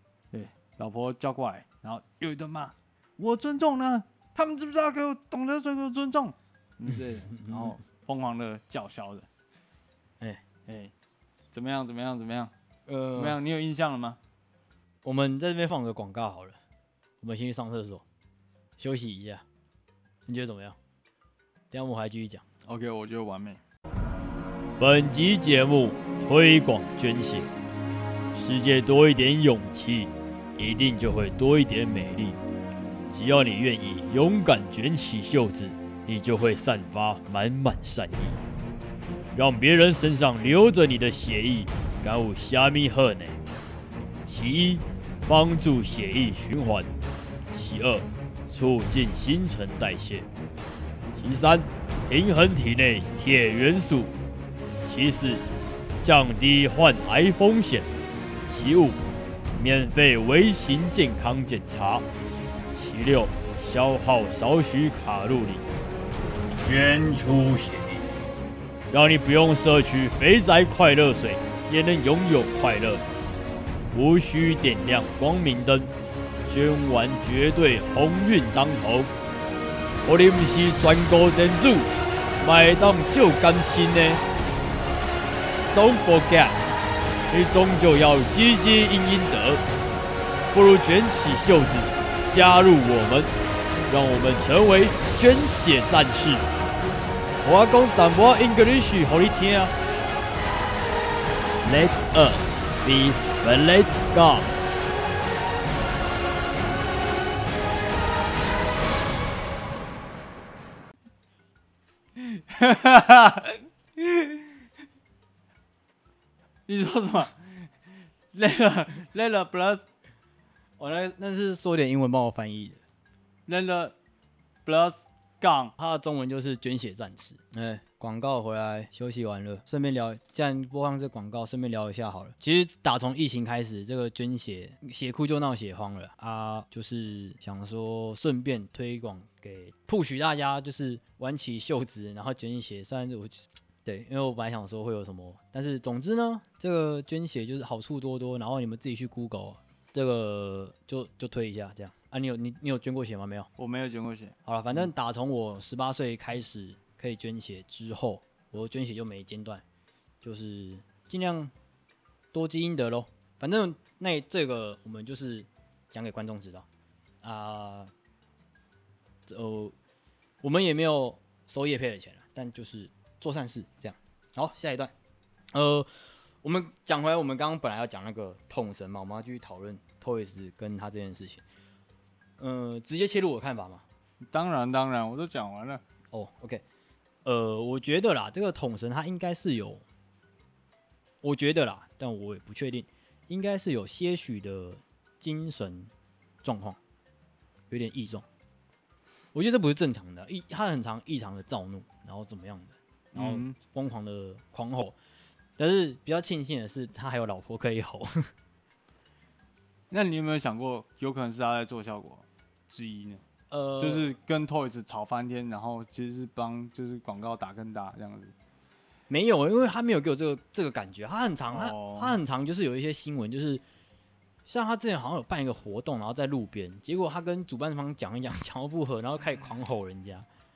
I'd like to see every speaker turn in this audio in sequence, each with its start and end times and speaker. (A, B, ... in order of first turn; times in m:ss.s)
0:00.3-0:09.3 A
0:06.8-0:07.8 B
0:10.6-0:10.9 A
0:11.5-0:12.5 A
0:12.9-0:13.4 B
0:13.1-0:14.2 A
0:15.0-0:16.6 B
0:17.2-0:18.0 B
0:18.8-0:19.4 B
0:20.2-0:20.8 B
0:21.7-0:22.4 B
0:22.6-0:23.6 A
0:24.8-0:27.5 B
0:28.3-0:32.4 B
0:33.1-0:38.4 B
0:39.3-0:43.4 B
0:44.2-0:46.9 B
0:47.5-0:50.3 B
0:51.2-0:54.1 B
0:54.8-0:55.4 B
0:56.0-0:57.9 B
0:58.5-0:59.0 B
0:59.6-1:02.0 B
1:02.7-1:05.6 B
1:06.6-1:08.0 B
1:08.9-1:13.0 B
1:13.9-1:15.9 B
1:16.5-1:19.1 B
1:20.0-1:21.9 B
1:22.4-1:24.2 B
1:25.7-1:26.7 B
1:27.3-1:29.6 B
1:30.5-1:33.3 B
1:33.9-1:36.5 B
1:37.4-1:39.7 B
1:41.6-1:44.6 B
1:52.2-1:54.6 A
1:56.7-1:57.7 A
1:58.3-1:59.8 A
2:00.8-2:02.8 B
2:03.5-2:03.9 A
2:04.6-2:05.7 A
2:05.8-2:33.5 B
2:33.6-2:34.4 A
2:34.4-2:39.6 B
2:40.2-2:41.5 B
2:42.3-2:46.6 B
2:47.2-2:47.9 B
2:49.3-2:49.7 B
2:50.4-2:54.9 B
2:55.5-2:55.9 B
2:56.4-3:01.4 B
3:02.4-3:03.8 B
3:04.2-3:05.8 A
3:06.1-3:06.6 B
3:07.2-3:09.8 B
3:11.2-3:15.9 B
3:16.4-3:16.8 B
3:17.7-3:18.2 B
3:19.3-3:25.0 B
3:23.1-3:23.6 A
3:25.6-3:28.3 B
3:29.9-3:33.2 A
3:33.5-3:34.1 B
3:33.8-3:38.3 A
3:39.1-3:43.6 B
3:41.5-3:42.2 A
3:44.5-3:50.3 B